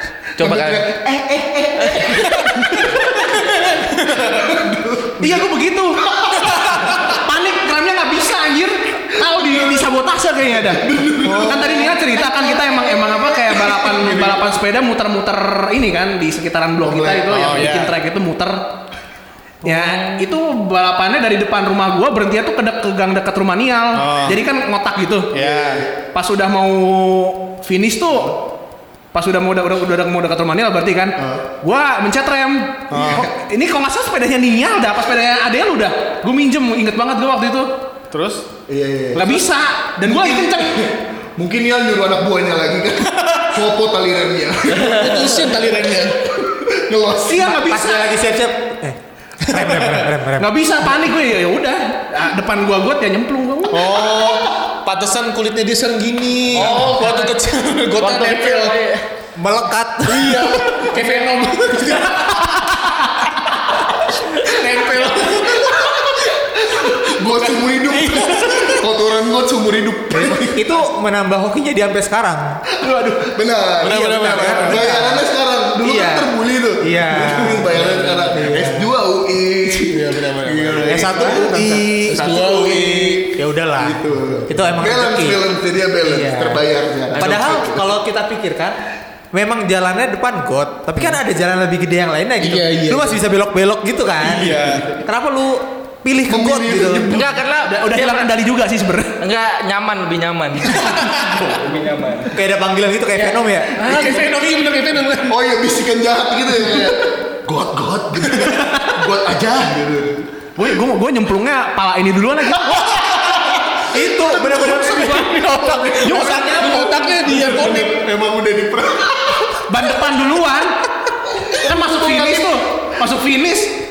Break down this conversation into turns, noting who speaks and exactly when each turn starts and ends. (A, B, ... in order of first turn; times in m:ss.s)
0:00.4-0:00.8 A
0:00.4-0:03.1 B
0:01.8-0:02.6 A
0:02.5-0:04.4 C
0:04.2-0:05.4 B
0:05.2-0:06.0 D
0:06.0-0:06.6 B
0:06.5-0:07.0 C
0:06.8-0:18.6 D
0:09.4-0:09.8 B
0:10.7-0:14.3 B
0:16.8-0:17.3 B
0:17.3-0:18.0 C
0:19.6-0:25.4 D
0:23.9-0:24.4 C
0:25.3-0:25.9 C
0:25.4-0:25.9 B
0:26.0-0:28.4 D
0:29.1-0:37.7 D
0:31.2-0:31.4 B
0:32.9-0:33.3 C
0:32.9-0:33.3 B
0:38.1-0:38.4 C
0:38.7-0:39.4 B
0:39.1-0:40.9 D
0:40.0-0:45.5 B
0:44.7-0:46.3 C
0:46.3-0:47.6 B
0:47.2-0:48.2 D
0:47.6-0:50.5 E
0:49.5-0:50.1 C
0:50.4-0:53.9 D
0:53.7-0:58.8 C
0:53.9-0:54.4 B
0:56.5-0:57.3 A
0:58.0-0:59.0 A
0:59.4-1:00.9 E
1:00.0-1:03.3 C
1:04.2-1:06.3 C
1:05.6-1:10.7 B
1:07.4-1:08.8 C
1:10.1-1:12.5 E
1:12.7-1:27.9 B
1:13.8-1:15.0 C
1:13.8-1:15.2 E
1:15.8-1:17.8 E
1:17.7-1:18.4 C
1:18.3-1:18.9 E
1:19.8-1:23.4 C
1:20.8-1:22.4 E
1:23.3-1:25.4 E
1:26.0-1:26.6 E
1:27.1-1:27.4 C
1:27.1-1:28.8 E
1:29.3-1:37.1 E
1:32.4-1:33.2 C
1:34.2-1:35.0 C
1:36.3-1:37.4 B
1:37.1-1:38.3 A
1:37.6-1:39.2 D
1:39.2-1:42.4 A
1:40.7-1:41.4 C
1:42.3-1:43.8 E
1:43.2-1:44.3 A
1:43.8-1:45.4 C
1:45.2-1:50.3 B
1:48.6-1:48.9 D
1:50.6-1:52.7 D
1:52.6-1:53.8 C
1:53.9-1:57.1 E
1:54.5-1:56.3 D
1:55.9-1:58.0 C
1:57.3-1:59.6 B
1:59.7-2:00.8 D
2:01.2-2:02.6 B
2:01.5-2:03.8 D